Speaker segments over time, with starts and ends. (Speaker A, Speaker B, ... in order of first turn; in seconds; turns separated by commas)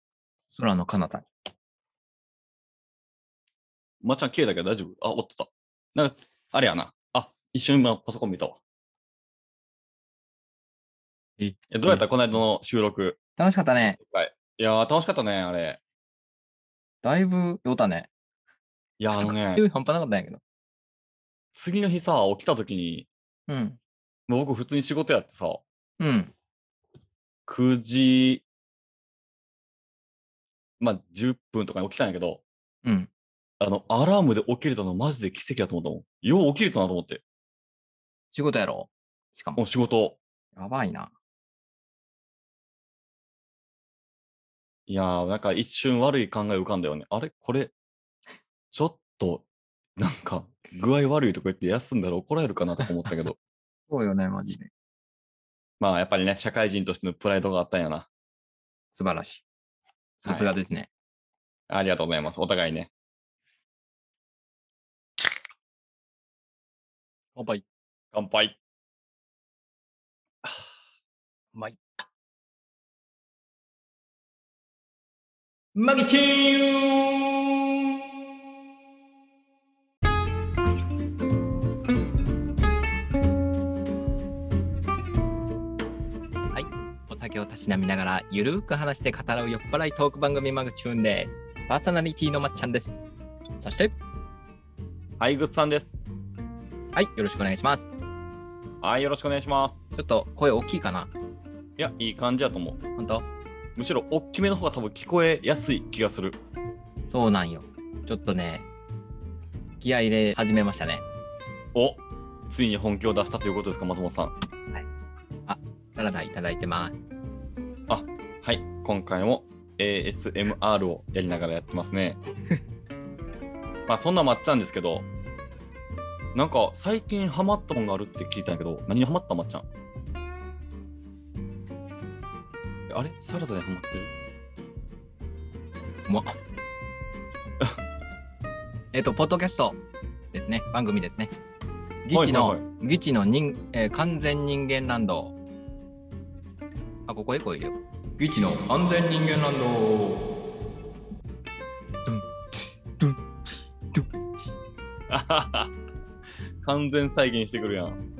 Speaker A: 0.5-1.3, Speaker B: 4.0-8.6, Speaker A: 11.4-12.0, Speaker B: 11.7-13.2, Speaker A: 13.4-14.0, Speaker B: 14.0-15.8, Speaker A: 17.0-18.1, Speaker B: 19.0-19.6, Speaker A: 19.1-20.4, Speaker B: 21.5-23.1, Speaker A: 23.5-23.8, Speaker B: 24.3-25.6, Speaker A: 26.0-26.3, Speaker B: 27.5-28.4, Speaker B: 30.8-32.4, Speaker A: 32.8-33.1, Speaker B: 33.6-37.2, Speaker A: 38.3-39.6, Speaker B: 39.6-40.2, Speaker A: 40.5-41.1, Speaker B: 44.9-47.7, Speaker B: 48.7-49.4, Speaker B: 50.0-53.4, Speaker A: 53.9-54.7, Speaker B: 55.8-58.1, Speaker A: 58.9-59.4, Speaker A: 60.2-60.9, Speaker B: 61.7-62.9, Speaker A: 67.3-67.6, Speaker B: 68.1-68.6, Speaker A: 71.5-71.8, Speaker A: 75.7-77.6, Speaker A: 86.5-93.0, Speaker A: 93.6-93.9, Speaker B: 95.2-96.0, Speaker A: 96.9-97.9, Speaker B: 98.8-99.8, Speaker A: 100.0-101.1, Speaker B: 101.8-102.8, Speaker A: 103.0-103.2, Speaker B: 103.8-106.4, Speaker A: 107.1-108.7, Speaker A: 109.8-111.0, Speaker B: 111.7-114.3, Speaker A: 115.5-116.9, Speaker B: 117.9-122.2, Speaker B: 123.9-125.0, Speaker B: 126.3-129.6, Speaker B: 132.9-134.1, Speaker A: 136.1-136.4, Speaker A: 138.9-139.8, Speaker A: 140.3-141.3, Speaker A: 142.0-145.3, Speaker B: 142.1-142.6, Speaker A: 147.1-150.3, Speaker A: 152.0-154.5, Speaker B: 155.1-155.7, Speaker B: 156.6-158.0